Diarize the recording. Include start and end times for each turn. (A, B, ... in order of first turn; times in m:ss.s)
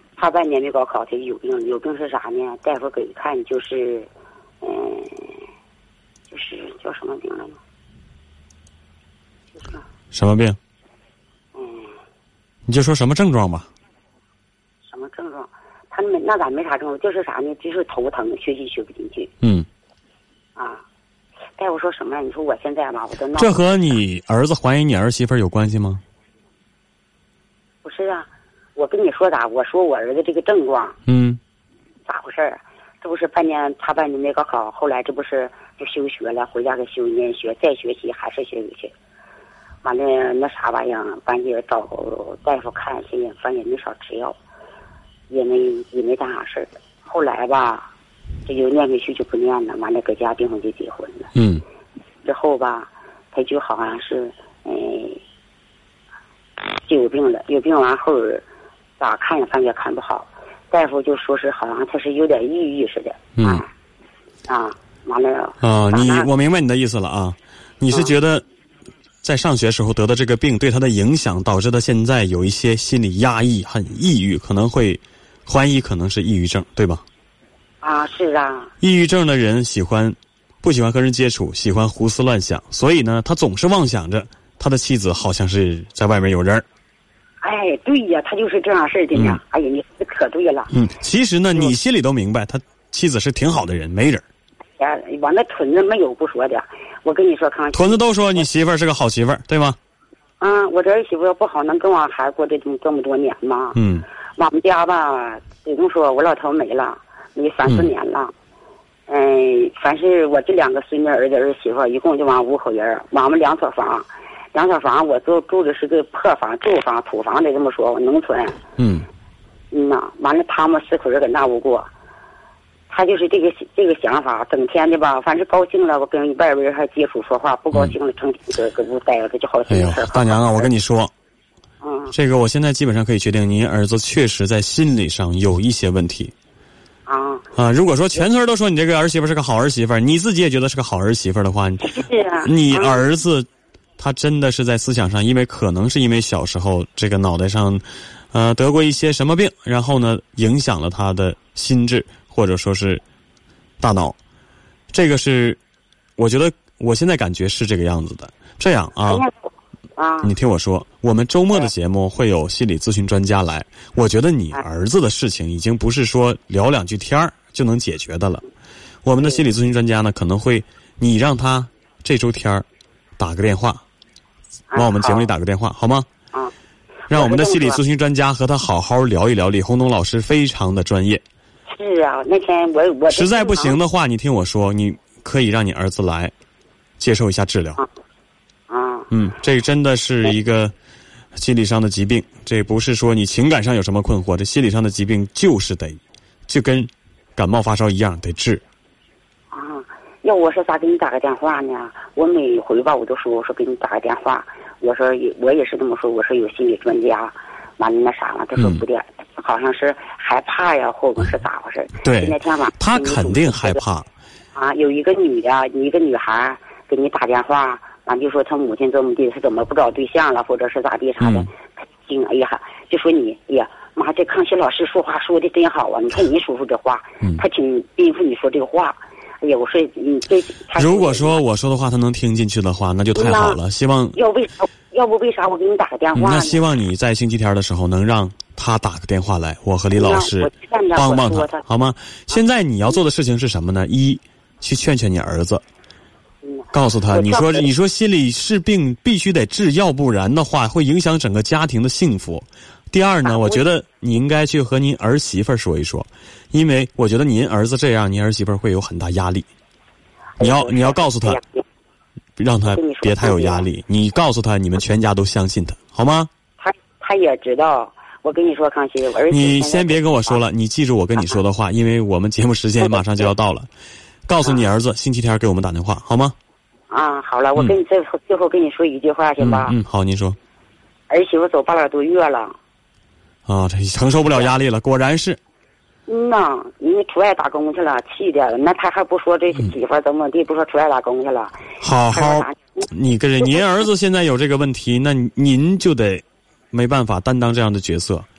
0:00.2-0:04.1 A
0:04.6-0:05.5 A
0:06.3-0:07.6 A
0:10.1-0:10.6 B
0:11.6-0:11.9 A
0:12.7-0:13.7 B
0:14.8-0:19.3 A
0:19.4-0:19.7 B
0:20.6-0:20.8 A
0:21.6-0:23.6 A
0:23.4-0:26.0 B
0:27.8-0:31.0 A
0:31.1-0:31.4 B
0:32.1-0:38.9 A
0:39.8-0:44.4 A
0:45.3-0:47.9 A
0:48.5-0:51.3 A
0:51.4-0:51.6 B
0:52.2-0:55.2 A
0:56.8-0:58.4 A
0:59.0-1:03.7 A
1:03.4-1:03.6 B
1:04.5-1:06.3 A
1:05.6-1:08.4 B
1:07.9-1:08.2 A
1:09.2-1:17.0 B
1:17.8-1:18.7 A
1:18.8-1:26.6 B
1:27.4-1:30.7 A
1:29.1-1:29.4 B
1:30.7-1:34.2 B
1:34.8-1:38.4 A
1:37.7-1:39.8 B
1:40.4-1:43.8 A
1:43.8-1:44.1 B
1:44.4-1:48.3 A
1:49.1-1:58.6 A
1:58.8-1:59.1 B
1:59.7-2:01.9 A
2:02.9-2:10.7 A
2:09.7-2:11.1 B
2:11.8-2:12.1 A
2:12.1-2:16.3 B
2:17.1-2:17.5 A
2:17.6-2:33.0 B
2:21.8-2:23.0 A
2:33.8-2:34.2 B
2:34.9-2:35.6 B
2:36.2-2:39.2 B
2:39.1-2:39.3 A
2:40.0-2:40.4 A
2:40.2-2:48.4 B
2:49.0-2:52.6 B
2:49.2-2:49.4 A
2:53.2-2:53.8 B
2:54.7-2:55.3 A
2:54.7-2:56.1 B
2:57.1-2:57.8 A
2:57.1-3:01.2 B
3:01.7-3:03.8 A
3:03.1-3:06.3 B
3:07.0-3:07.8 B
3:08.7-3:09.1 A
3:09.1-3:10.7 B
3:11.4-3:18.6 B
3:19.5-3:33.8 A
3:28.6-3:28.8 B
3:32.0-3:34.1 B
3:34.6-3:51.4 A
3:41.2-3:41.5 B
3:50.8-3:54.2 B
3:53.2-3:53.6 A
3:54.2-3:56.6 A
3:56.2-4:05.6 B
4:00.0-4:01.6 A
4:06.4-4:07.7 A
4:06.7-4:19.5 B
4:13.2-4:13.7 A
4:20.4-4:21.6 A
4:20.4-4:21.4 B
4:22.4-4:26.3 B
4:22.6-4:23.7 A
4:26.6-4:30.4 A
4:29.3-4:33.7 B
4:32.8-4:33.3 A
4:34.3-4:36.4 B
4:36.9-4:39.8 A
4:39.4-4:40.4 B
4:41.1-4:42.6 A
4:43.5-4:45.4 B
4:46.1-4:52.9 A
4:51.8-4:58.3 B